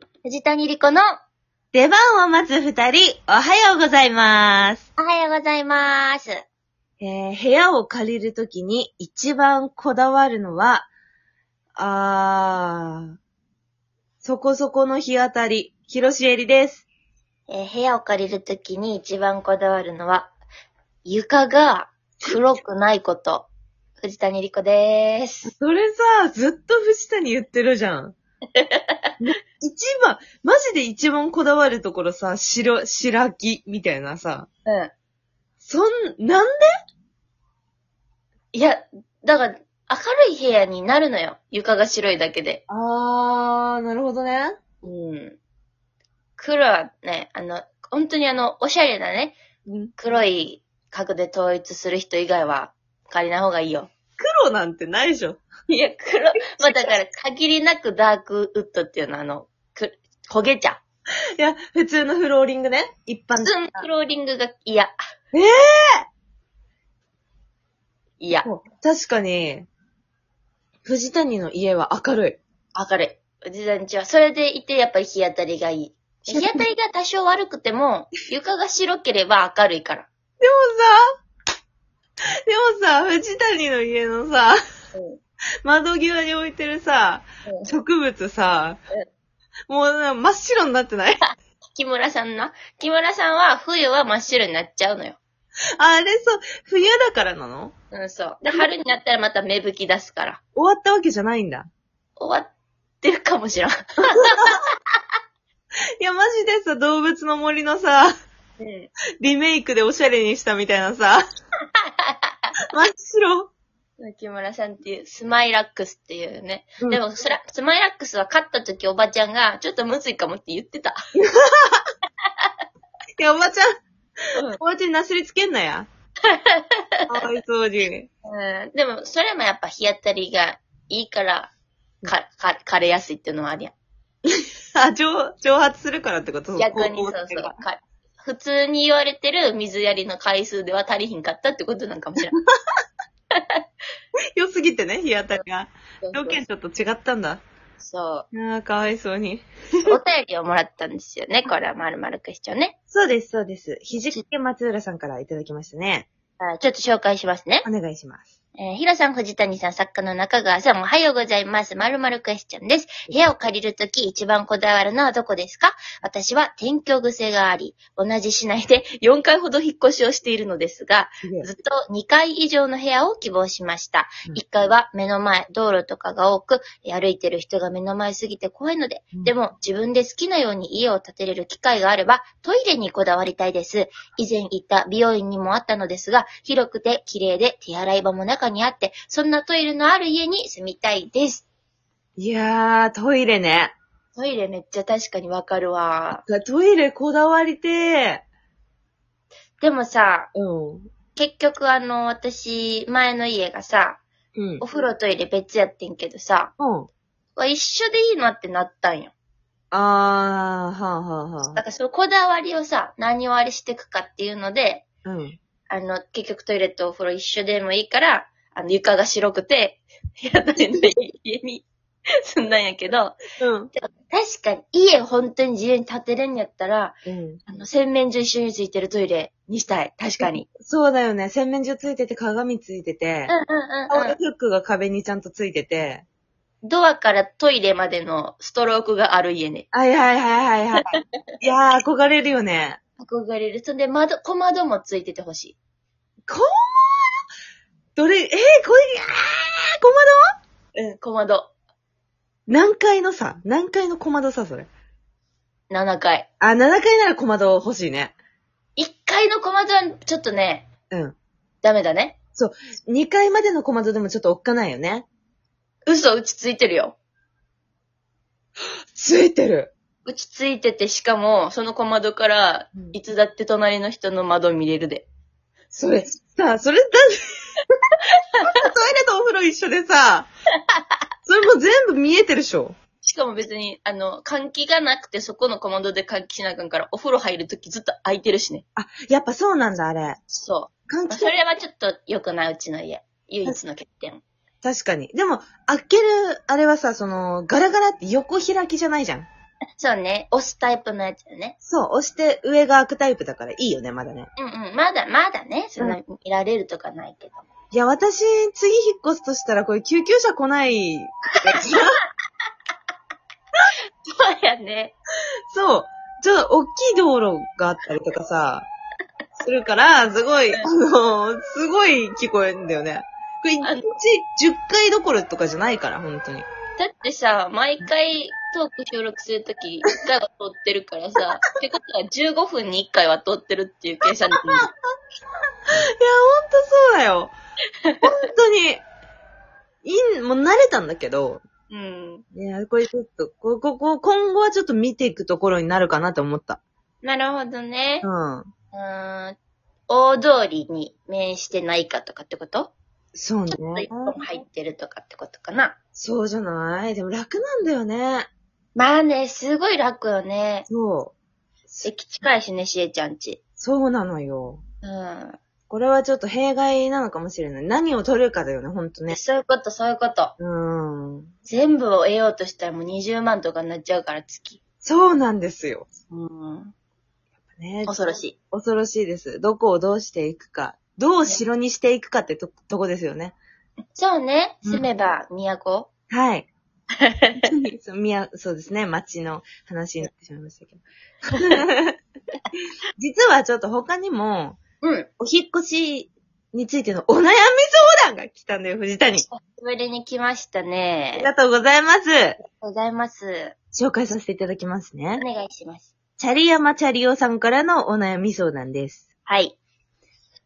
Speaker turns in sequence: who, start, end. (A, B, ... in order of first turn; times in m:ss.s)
0:00.2-0:01.1 A
0:01.7-0:04.9 B
0:05.0-0:06.4 A
0:07.0-0:10.9 B
0:11.8-0:13.1 B
0:14.2-0:16.8 B
0:17.5-0:20.3 A
0:21.0-0:23.5 A
0:22.2-0:22.6 B
0:24.0-0:25.5 A
0:25.4-0:28.2 B
0:28.6-0:29.1 A
0:29.2-0:34.5 B
0:34.7-0:34.9 A
0:35.6-0:36.6 B
0:38.5-0:42.6 A
0:42.7-0:44.6 B
0:44.8-0:45.4 A
0:46.4-0:49.4 A
0:49.7-0:49.9 B
0:50.0-0:53.9 A
0:54.2-0:55.4 B
0:55.7-1:00.8 A
0:56.5-0:57.0 B
1:01.4-1:03.9 B
1:03.4-1:04.9 A
1:05.3-1:06.0 B
1:08.2-1:08.5 A
1:08.4-1:09.7 B
1:10.9-1:12.4 B
1:12.7-1:20.1 A
1:16.3-1:16.6 B
1:20.4-1:21.0 B
1:22.5-1:24.6 B
1:24.9-1:25.2 A
1:25.6-1:28.8 B
1:27.4-1:27.7 A
1:29.7-1:31.2 B
1:31.2-1:35.2 A
1:35.8-1:37.7 B
1:37.9-1:40.4 A
1:40.6-1:41.7 B
1:42.2-1:42.5 A
1:43.0-1:44.7 A
1:44.2-1:44.5 B
1:46.0-1:48.1 B
1:48.6-1:48.9 A
1:49.2-1:51.2 B
1:51.8-1:52.4 A
1:52.7-1:53.5 B
1:54.0-2:01.0 A
2:01.2-2:01.8 B
2:02.2-2:02.5 A
2:03.2-2:03.7 B
2:04.6-2:05.9 B
2:06.2-2:07.0 A
2:07.1-2:08.1 B
2:08.2-2:11.5 A
2:12.0-2:13.8 A
2:14.3-2:17.6 B
2:16.6-2:22.3 A
2:23.3-2:23.6 A
2:24.4-2:27.4 B
2:26.0-2:26.4 A
2:27.8-2:28.3 A
2:28.3-2:29.5 B
2:29.9-2:32.8 A
2:32.9-2:36.1 B
2:36.4-2:37.7 A
2:37.6-2:38.3 B
2:38.6-3:11.4 A
2:51.2-2:51.5 B
3:12.2-3:13.8 B
3:14.2-3:16.2 A
3:16.2-3:18.2 B
3:19.6-3:20.3 A
3:20.3-3:20.9 B
3:21.2-3:24.0 A
3:24.4-3:24.6 B
3:24.6-3:26.5 A
3:26.6-3:26.9 B
3:27.4-3:29.1 A
3:29.7-3:31.6 B
3:31.5-3:34.8 A
3:35.0-3:35.4 B
3:35.7-3:41.7 A
3:42.2-3:43.2 A
3:43.4-3:43.7 B
3:43.8-3:47.0 A
3:47.1-3:47.4 B
3:47.5-3:50.5 A
3:50.2-3:53.3 B
3:53.3-3:54.2 A
3:53.9-3:56.0 B
3:56.6-3:59.7 A
3:59.7-4:02.8 B
4:03.0-4:05.6 A
4:06.3-4:07.1 B
4:08.0-4:10.2 B
4:10.8-4:11.5 A
4:12.5-4:14.7 B
4:15.7-4:16.3 A
4:16.4-4:18.1 B
4:18.8-4:20.7 A
4:20.9-4:21.2 B
4:21.6-4:22.2 A
4:22.4-4:25.1 B
4:25.8-4:27.0 A
4:28.9-4:29.7 B
4:30.1-4:35.1 A
4:35.7-4:37.1 B
4:38.4-4:40.3 B
4:41.2-4:42.8 B
4:43.0-4:48.6 A
4:48.8-4:50.2 B
4:50.3-4:54.2 A
4:50.9-4:51.3 B
4:54.6-4:59.2 B
4:59.8-5:01.6 A
5:01.6-5:04.3 B
5:04.4-5:07.5 A
5:07.7-5:11.9 B
5:11.4-5:11.8 A
5:14.1-5:15.0 A
5:15.5-5:18.7 B
5:19.4-5:26.4 B
5:23.6-5:24.0 A
5:26.8-5:34.7 A
5:34.3-5:34.7 B
5:35.7-5:37.3 B
5:38.0-5:38.8 B
5:39.8-5:41.4 B
5:41.7-5:42.2 A
5:42.3-5:46.6 B
5:47.0-5:48.1 A
5:48.0-5:48.5 B
5:48.7-5:49.4 A
5:49.9-5:52.7 A
5:53.1-5:54.1 B
5:53.5-5:55.8 A
5:56.0-5:58.3 B
5:58.8-6:00.7 A
6:00.7-6:01.1 B
6:01.8-6:03.4 A
6:03.6-6:04.6 B
6:04.8-6:05.4 A
6:05.7-6:09.2 B
6:09.1-6:10.4 A
6:10.4-6:11.3 B
6:11.5-6:14.6 A
6:14.8-6:15.9 B
6:16.1-6:16.7 A
6:17.5-6:23.3 B
6:17.9-6:18.3 A
6:23.9-6:25.9 A
6:26.1-6:26.5 B
6:27.0-6:27.5 A
6:27.4-6:32.0 B
6:31.3-6:31.6 A
6:33.0-6:34.6 B
6:34.8-6:35.1 A
6:35.2-6:39.2 B
6:39.2-6:41.3 A
6:41.2-6:42.4 B
6:42.4-6:43.5 A
6:43.7-6:45.2 B
6:45.2-6:45.9 A
6:46.2-6:49.0 B
6:49.2-6:49.6 A